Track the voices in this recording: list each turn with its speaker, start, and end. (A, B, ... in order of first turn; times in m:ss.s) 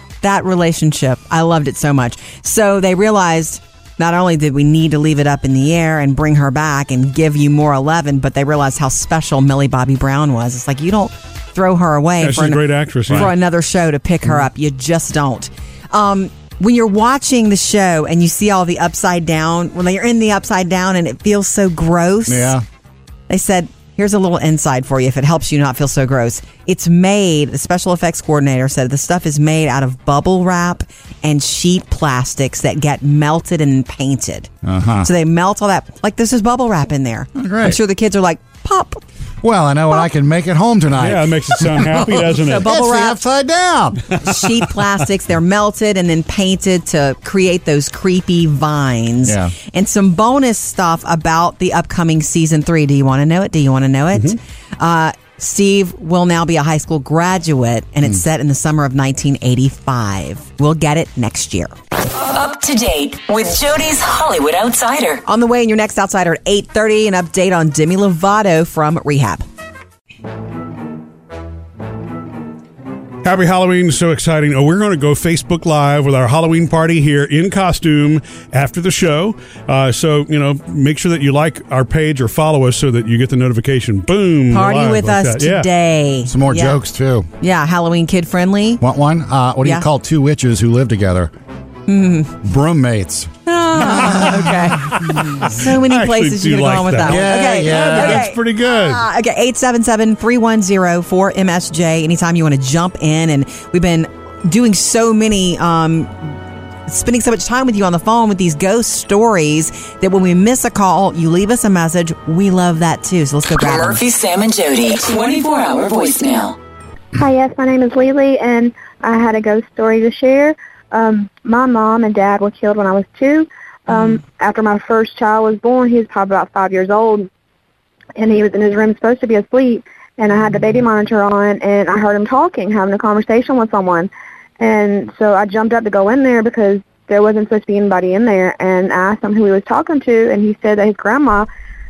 0:00.2-0:22.6 A
0:12.2-0:13.4 B
0:22.3-0:22.6 C
0:23.3-0:34.5 A
0:34.6-0:35.1 C
0:35.0-0:39.0 A
0:37.4-0:37.8 C
0:39.4-0:44.2 C
0:41.0-0:42.7 B
0:42.4-0:43.2 A
0:44.2-1:01.7 A
0:49.2-0:49.5 C
1:02.1-1:05.2 D
1:05.2-1:09.4 A
1:13.2-1:25.7 B
1:24.5-1:26.8 A
1:26.3-1:27.3 C
1:27.4-1:28.8 A
1:28.8-1:31.3 C
1:31.9-1:32.3 A
1:32.4-1:34.5 C
1:33.4-1:54.0 A
1:34.9-1:39.0 B
1:37.0-1:38.4 C
1:53.6-1:56.6 D
1:57.1-2:07.3 E
2:08.2-2:21.5 E